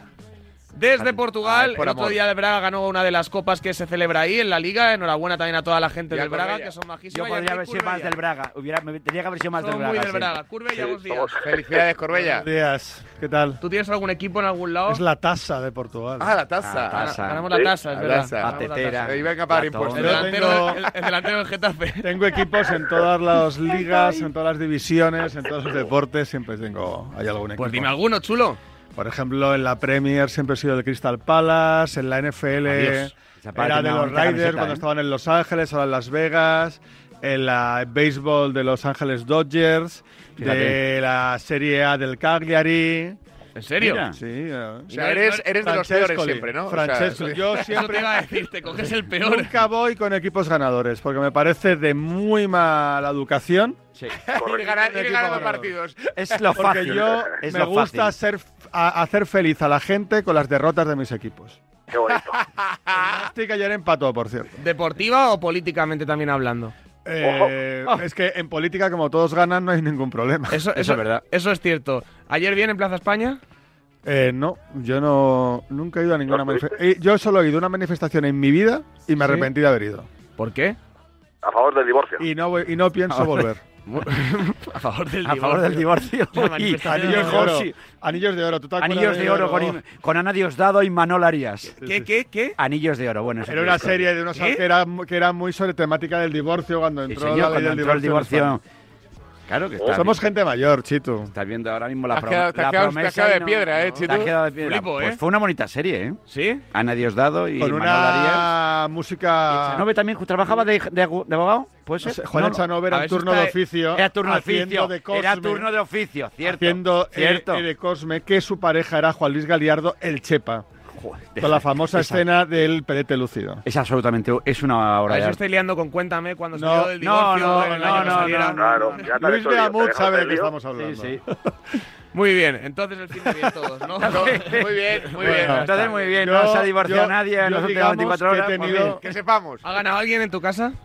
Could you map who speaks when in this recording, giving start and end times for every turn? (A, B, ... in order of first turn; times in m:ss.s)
0:00.7-0:08.2 A
0:01.0-0:01.3 B
0:01.4-0:02.2 C
0:06.1-0:06.8 C
0:07.1-0:10.4 B
0:09.6-0:11.4 A
0:10.8-0:12.5 C
0:10.8-0:11.8 D
0:12.4-0:13.6 E
0:13.6-0:15.0 A
0:14.9-0:16.3 E
0:16.2-0:20.9 C
0:16.6-0:17.4 B
0:16.9-0:19.1 A
0:18.3-0:20.1 B
0:19.9-0:22.1 A
0:19.9-0:20.8 E
0:22.0-0:27.9 E
0:27.6-0:28.6 A
0:29.0-0:43.2 E
0:32.7-0:33.1 A
0:33.4-0:34.8 B
0:40.4-0:40.8 B
0:43.6-0:44.0 A
0:43.8-0:44.2 B
0:44.1-0:45.0 E
0:44.9-0:47.6 C
0:44.9-0:45.5 A
0:45.6-0:48.2 E
0:47.7-0:49.6 A
0:49.2-0:53.8 E
0:54.2-0:56.5 C
0:54.4-0:54.8 D
0:54.8-0:55.7 E
0:56.2-0:58.2 B
0:56.6-1:01.6 E
1:01.9-1:02.4 D
1:02.2-1:03.0 C
1:02.9-1:04.6 E
1:04.6-1:06.7 A
1:07.0-1:11.0 E
1:07.2-1:07.5 D
1:10.5-1:13.4 A
1:14.0-1:20.1 E
1:16.3-1:16.7 D
1:19.2-1:19.5 A
1:20.4-1:20.8 A
1:21.4-1:22.2 D
1:22.2-1:23.6 E
1:23.1-1:23.5 B
1:23.9-1:27.5 A
1:25.2-1:27.8 B
1:26.8-1:29.8 E
1:28.8-1:31.8 B
1:31.8-1:32.6 A
1:31.8-1:32.1 E
1:32.6-1:34.1 B
1:33.4-1:38.6 E
1:34.4-1:34.7 A
1:37.1-1:38.6 B
1:39.5-1:40.2 B
1:39.9-1:41.3 E
1:41.3-1:46.2 B
1:42.1-1:44.3 C
1:43.9-1:45.2 A
1:46.3-1:46.6 A
1:46.7-1:48.5 B
1:47.6-1:49.9 E
1:49.6-1:52.7 B
1:52.0-1:55.7 E
1:52.9-1:53.6 A
1:54.0-1:57.6 B
1:56.4-2:00.7 E
2:01.0-2:02.3 B
2:01.4-2:03.6 E
2:03.6-2:05.4 B
2:05.1-2:09.1 A
2:06.5-2:08.4 E
2:07.0-2:09.1 B
2:08.4-2:10.6 D
2:09.1-2:11.2 E
2:10.7-2:11.2 B
2:12.1-2:14.5 A
2:14.0-2:19.0 B
2:14.0-2:16.1 C
2:15.1-2:16.0 A
2:15.2-2:19.0 E
2:18.9-2:19.6 C
2:19.6-2:20.7 A